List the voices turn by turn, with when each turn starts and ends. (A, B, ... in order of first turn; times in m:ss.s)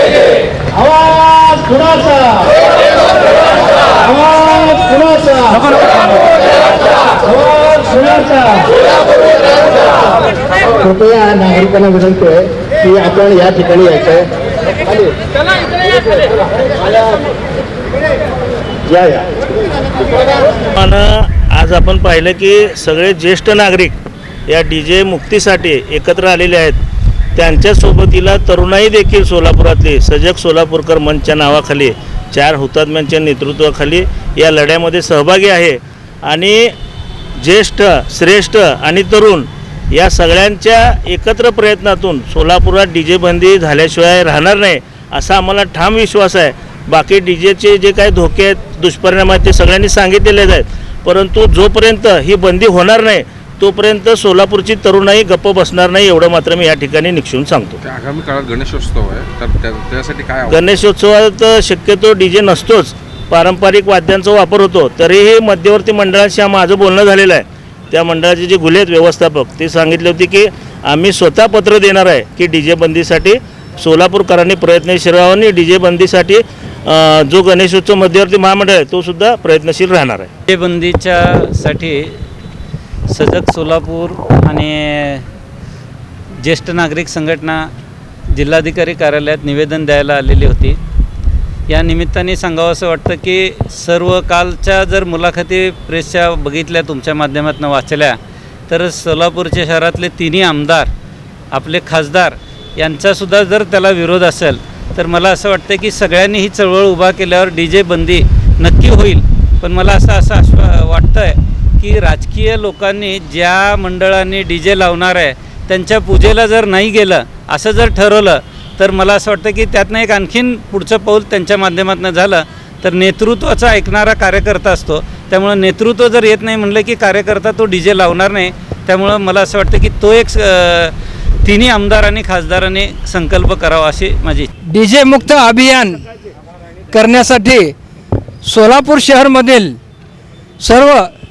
0:00.6-0:02.6 A
0:03.9-0:06.2 A
0:07.2-0:08.8 A
0:10.7-0:14.3 A
0:18.9-0:19.3 A
0:20.8-0:26.8 B
0:27.4-0:36.7 B
0:37.4-0:57.8 B
0:57.8-1:00.8 C
1:00.5-1:20.3 B
1:20.5-1:22.2 D
1:23.1-1:25.3 D
1:26.4-1:27.7 D
1:28.3-1:30.8 D
1:31.7-1:38.2 D
1:38.7-1:40.9 D
1:41.5-2:14.5 D
2:14.7-2:16.0 E
2:16.9-2:17.7 E
2:18.4-2:19.8 E
2:20.6-2:21.1 E